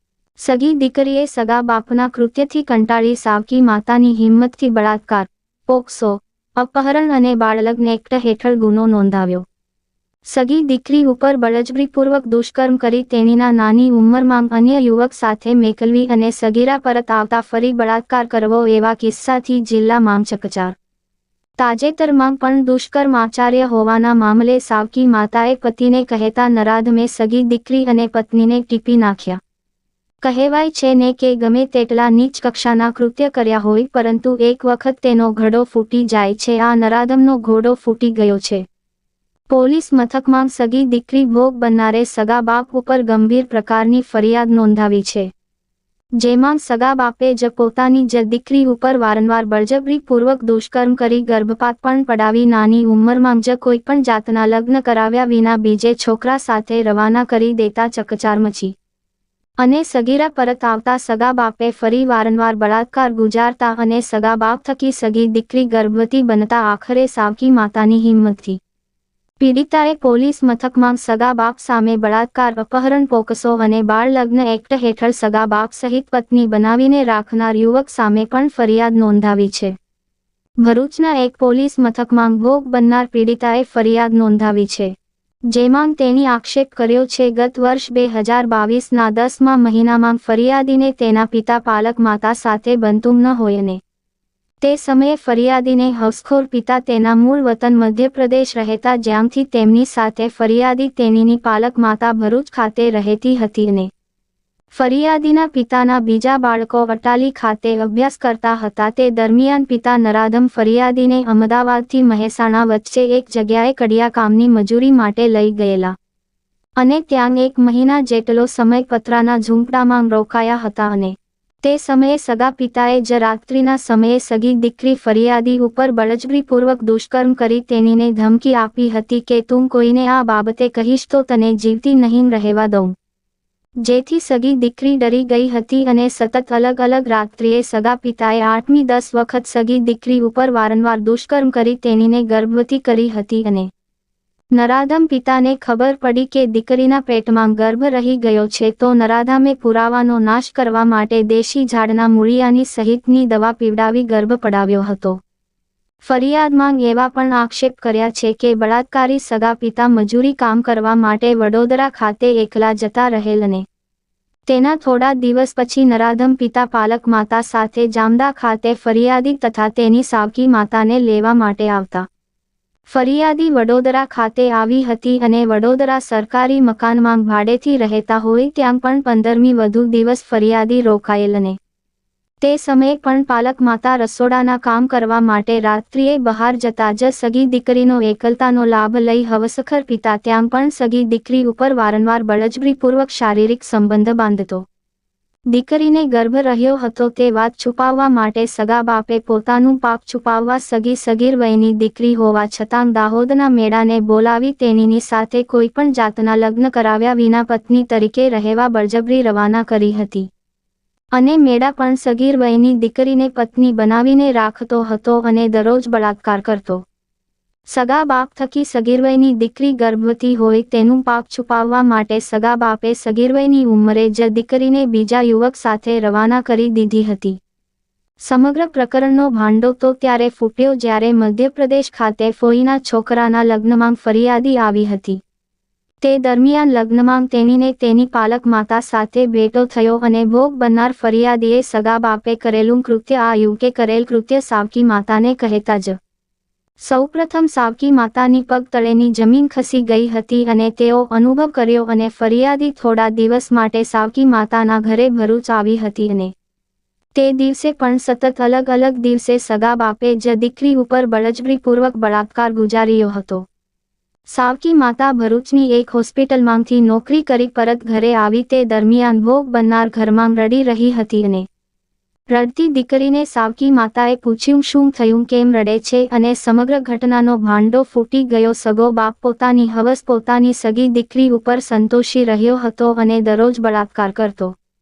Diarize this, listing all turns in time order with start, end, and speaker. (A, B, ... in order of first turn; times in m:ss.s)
0:00.4-0:09.4 A
0:10.2-0:20.7 A
0:21.6-0:29.4 A
0:30.2-0:38.6 A
0:39.5-0:45.3 A
0:46.2-0:58.7 A
0:59.6-1:08.6 A
1:09.4-1:19.7 A
1:20.6-1:24.9 A
1:25.5-1:33.8 A
1:34.6-1:43.9 A
1:44.8-1:55.9 A
1:56.8-2:12.9 A
2:13.8-2:23.7 A
2:24.5-2:35.2 A
2:36.0-2:43.6 A
2:44.5-2:52.0 A
2:52.9-3:01.6 A
3:02.4-3:14.6 A
3:15.5-3:30.3 A
3:31.1-3:36.8 A
3:37.7-3:47.4 A
3:48.2-3:55.2 A
3:56.0-4:06.0 A
4:06.8-4:16.3 A
4:17.2-4:23.4 A
4:24.3-4:31.4 A
4:32.3-4:44.6 A